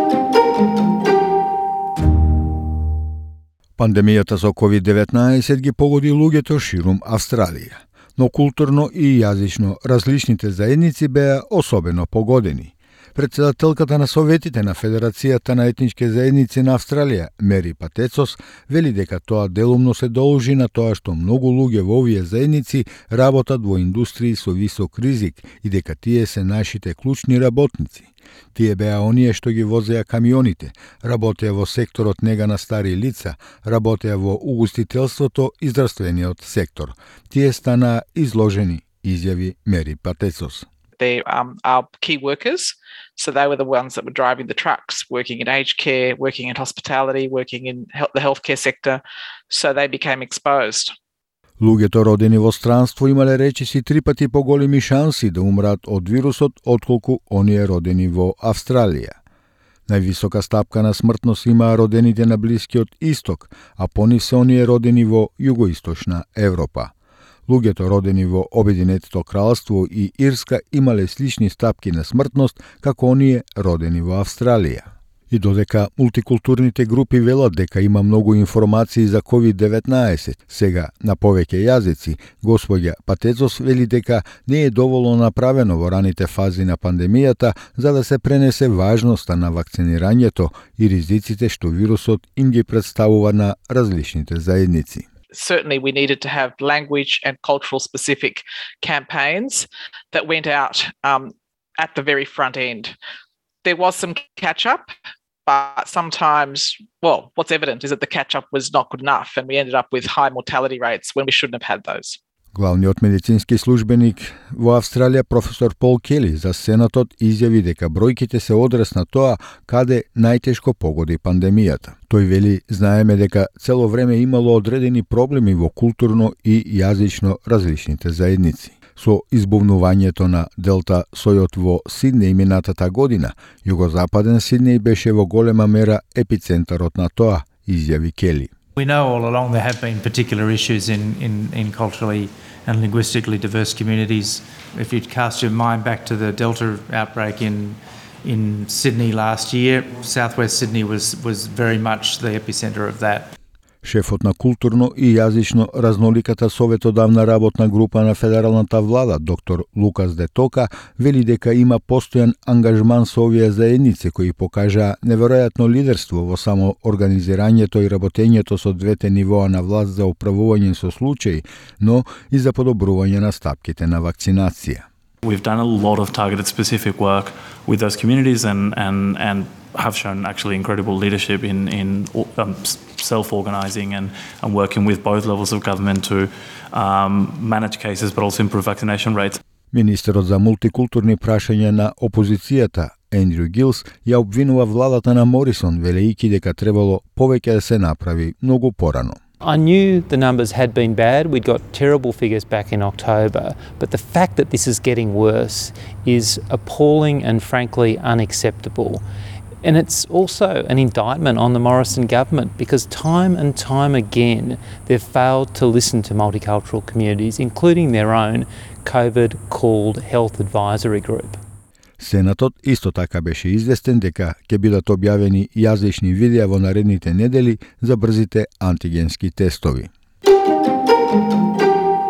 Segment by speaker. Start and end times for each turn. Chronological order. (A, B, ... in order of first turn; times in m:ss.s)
0:03.8-0:40.6 A
0:41.0-0:50.9 B
0:51.6-0:59.2 A
0:59.9-1:06.9 A
1:07.5-1:35.0 A
1:35.3-1:42.9 B
1:43.6-1:44.9 B
1:45.4-1:52.2 B
1:52.5-2:18.5 A
2:18.8-2:33.3 C
2:33.8-2:54.8 A
2:55.2-3:09.4 D
3:09.7-3:19.2 A
3:19.4-3:29.0 E
3:29.6-3:41.4 E
3:42.0-3:49.9 A